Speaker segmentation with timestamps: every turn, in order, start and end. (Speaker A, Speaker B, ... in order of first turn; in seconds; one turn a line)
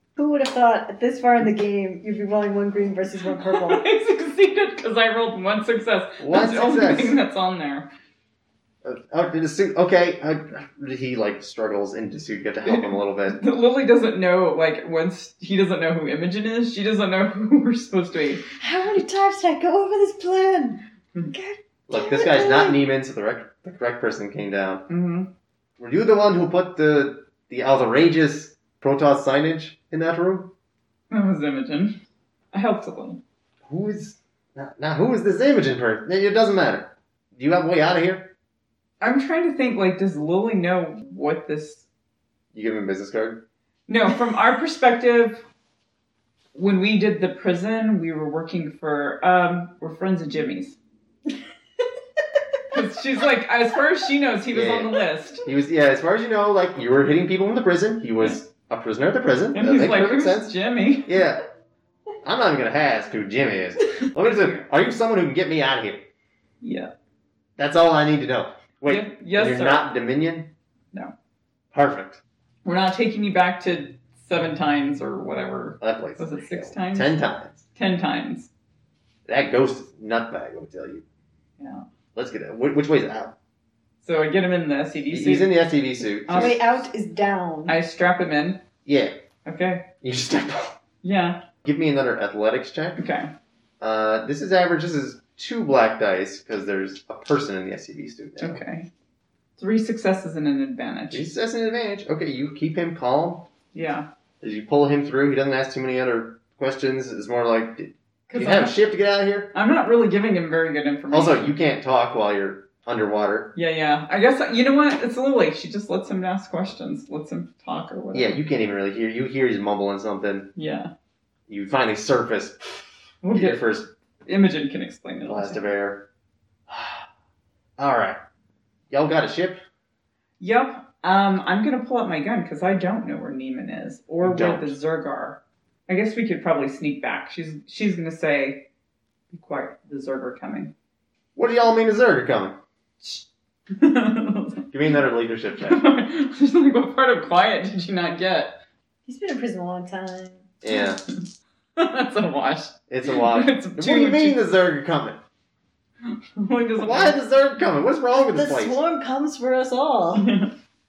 Speaker A: 0.1-3.8
Speaker B: 3.3-7.9
Speaker C: 6.2-7.2
Speaker C: 8.8-13.4
Speaker B: 12.6-18.4
Speaker A: 18.6-20.8
Speaker A: 21.3-22.8
Speaker C: 21.9-24.8
Speaker B: 24.9-25.3
Speaker C: 25.8-30.5
Speaker B: 31.1-32.0
Speaker B: 32.5-33.2
Speaker C: 33.6-38.3
Speaker B: 39.0-41.9
Speaker C: 42.5-43.4
Speaker B: 43.9-45.4
Speaker B: 46.5-50.8
Speaker B: 52.7-55.5
Speaker C: 54.5-60.5
Speaker B: 59.5-61.2
Speaker C: 61.0-61.4
Speaker C: 62.2-66.0
Speaker B: 64.0-64.6
Speaker B: 66.6-66.9
Speaker C: 67.6-70.5
Speaker B: 68.8-69.9
Speaker C: 71.7-72.2
Speaker B: 72.6-77.2
Speaker C: 75.8-77.6
Speaker B: 77.8-78.5
Speaker C: 79.2-81.0
Speaker B: 81.6-81.8
Speaker C: 82.1-83.3
Speaker B: 84.0-85.5
Speaker C: 85.1-86.6
Speaker B: 86.3-86.6
Speaker A: 86.3-87.8
Speaker B: 87.7-88.6
Speaker C: 88.8-89.2
Speaker B: 89.4-89.8
Speaker C: 90.0-90.8
Speaker B: 91.0-91.4
Speaker C: 91.6-93.0
Speaker B: 93.0-93.3
Speaker C: 93.8-98.6
Speaker B: 98.4-98.9
Speaker B: 99.6-101.2
Speaker C: 101.1-103.5
Speaker B: 103.7-104.1
Speaker C: 104.4-109.5
Speaker B: 108.3-108.7
Speaker B: 109.5-111.5
Speaker C: 111.1-113.5
Speaker B: 113.5-118.4
Speaker C: 118.1-120.5
Speaker B: 120.5-120.9
Speaker C: 121.5-123.9
Speaker B: 123.2-123.6
Speaker B: 124.2-125.6
Speaker C: 125.2-126.1
Speaker C: 126.7-127.0
Speaker C: 127.8-128.2
Speaker C: 128.9-129.6
Speaker B: 130.4-138.6
Speaker C: 134.2-134.8
Speaker B: 139.3-140.7
Speaker C: 141.3-142.6
Speaker B: 143.0-144.7
Speaker C: 144.7-145.8
Speaker B: 145.6-148.6
Speaker A: 149.1-150.4
Speaker C: 150.6-151.0
Speaker B: 150.7-151.2
Speaker B: 151.8-154.4
Speaker C: 152.9-155.2
Speaker B: 156.0-157.2
Speaker C: 156.8-158.8
Speaker A: 158.1-160.3
Speaker B: 160.2-160.5